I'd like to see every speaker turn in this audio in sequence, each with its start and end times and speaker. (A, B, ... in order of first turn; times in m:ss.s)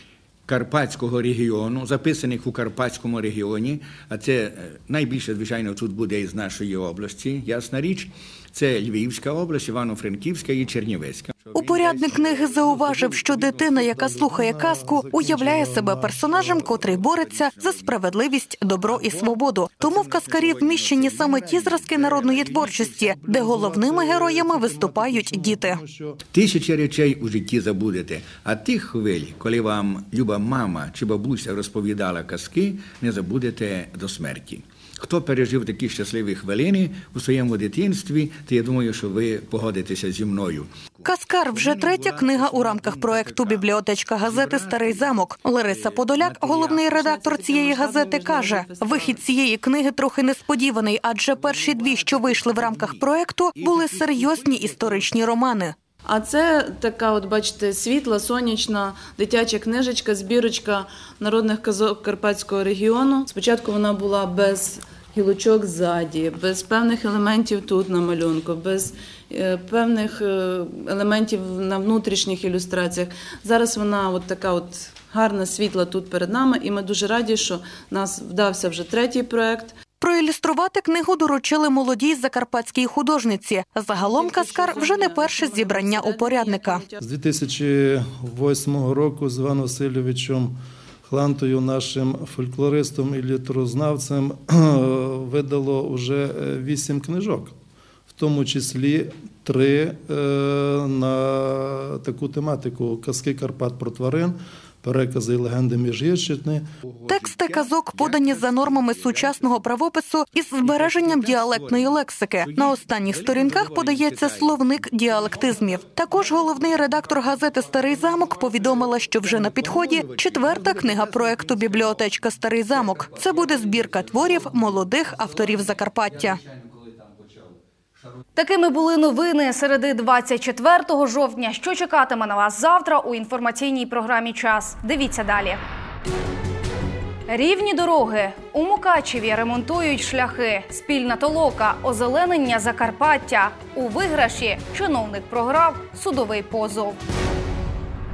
0:00.5-0:12.6 A
0:11.5-0:25.8 B
0:13.5-0:16.8 C
0:16.7-0:18.0 A
0:18.8-0:22.6 A
0:22.7-0:26.2 C
0:26.3-0:43.7 A
0:41.0-0:55.7 B
0:44.2-0:45.1 A
0:46.9-0:49.3 D
0:56.0-1:19.8 D
1:20.0-1:26.8 B
1:23.9-1:27.0 D
1:27.0-1:37.5 C
1:38.1-1:46.6 C
1:46.8-1:49.6 A
1:47.0-2:06.4 B
1:50.6-1:55.6 A
1:59.2-2:02.0 A
2:08.3-2:15.6 E
2:17.3-2:27.0 E